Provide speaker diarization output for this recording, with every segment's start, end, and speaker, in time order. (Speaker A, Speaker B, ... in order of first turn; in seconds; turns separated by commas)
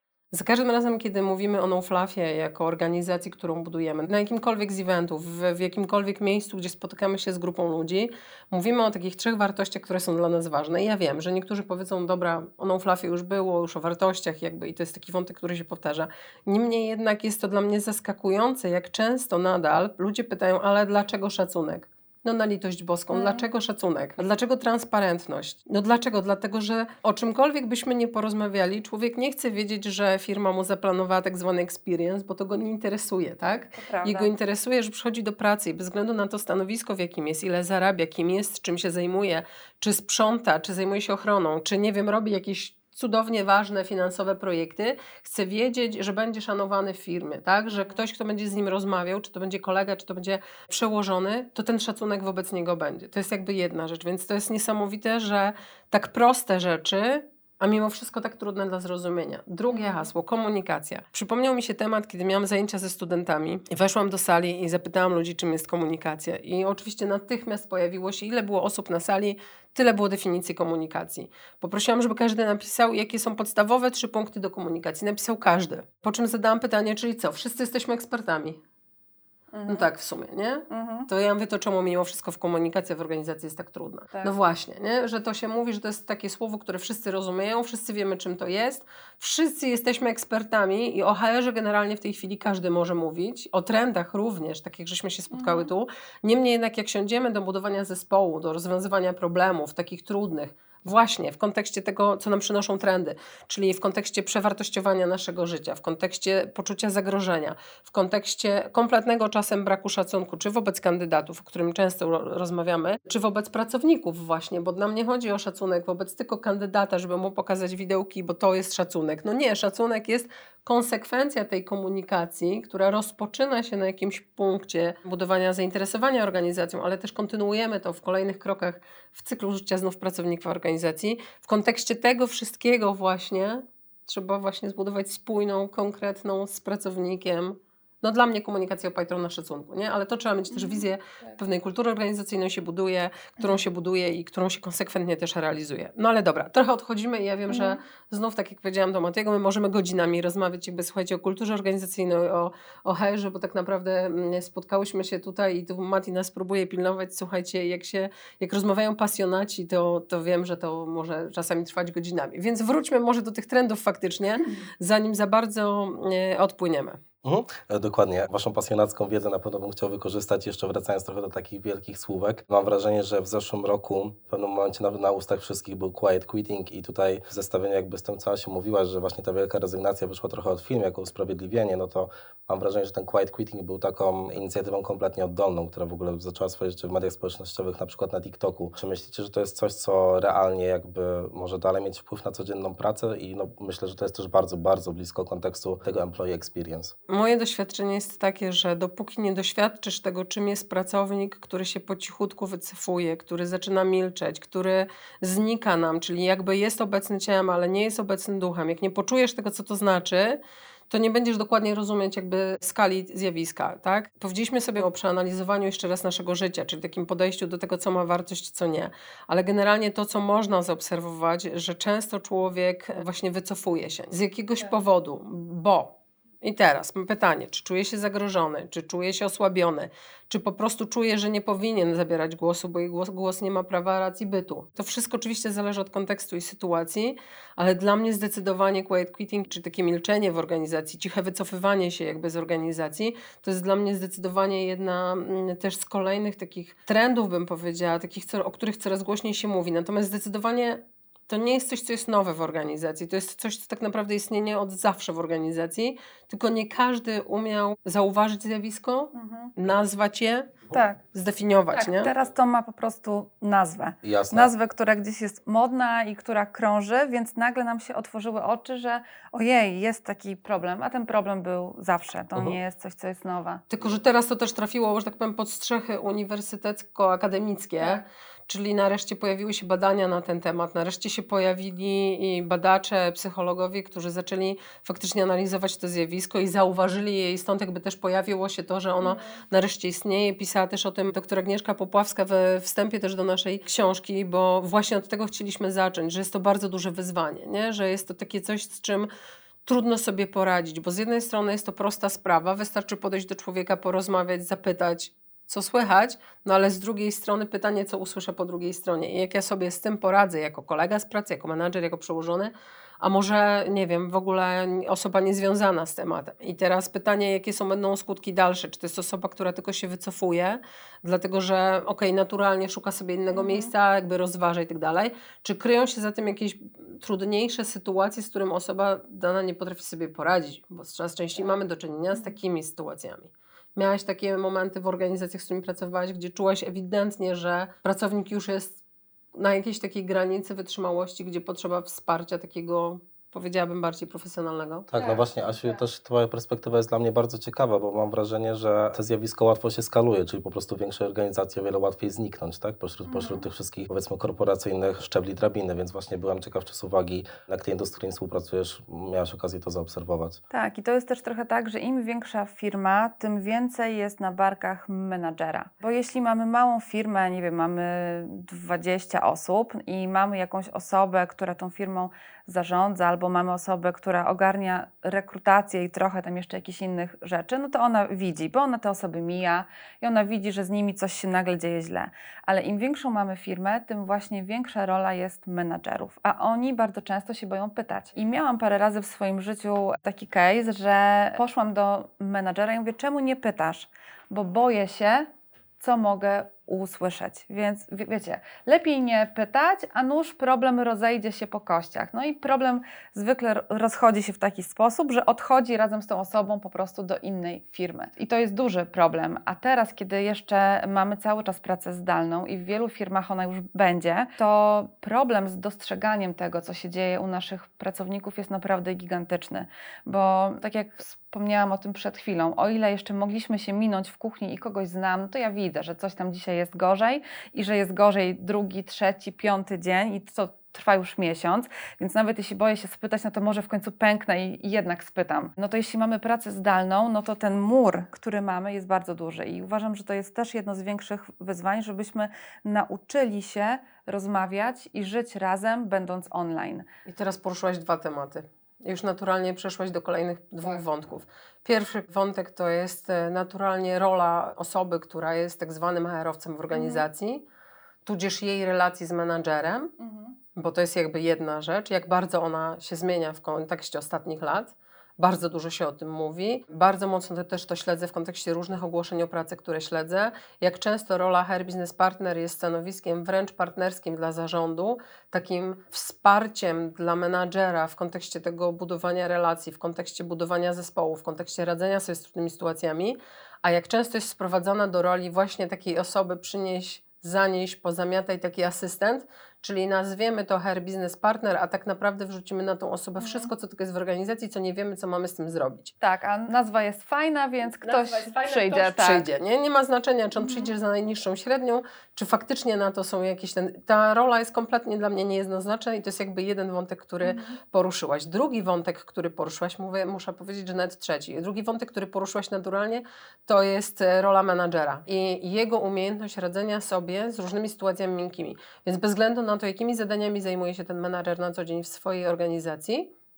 Speaker A: 0.3-78.6, Speaker B: 23.1-23.4, Speaker B: 33.7-34.3, Speaker B: 59.7-60.1, Speaker B: 79.5-79.9, Speaker A: 79.7-167.0, Speaker B: 80.7-81.1, Speaker B: 95.3-95.7, Speaker B: 140.5-140.9, Speaker B: 147.5-147.8, Speaker C: 167.2-196.9, Speaker A: 197.1-210.4, Speaker A: 210.9-260.6, Speaker B: 259.1-259.5, Speaker B: 260.7-261.0, Speaker A: 261.1-262.1, Speaker B: 261.7-273.6, Speaker C: 264.0-264.5, Speaker A: 273.7-299.1, Speaker B: 289.0-289.4, Speaker A: 299.6-338.8, Speaker B: 323.3-323.7, Speaker A: 339.3-344.9, Speaker C: 344.9-360.4, Speaker B: 345.0-345.8, Speaker B: 353.1-353.4, Speaker B: 360.5-395.3, Speaker B: 395.8-446.8, Speaker A: 447.1-457.4, Speaker B: 456.7-457.0, Speaker A: 458.1-459.9, Speaker B: 460.0-460.3, Speaker A: 460.6-495.9, Speaker B: 493.2-493.5, Speaker B: 496.0-499.3, Speaker A: 497.8-523.1, Speaker B: 500.4-500.7, Speaker B: 507.2-507.6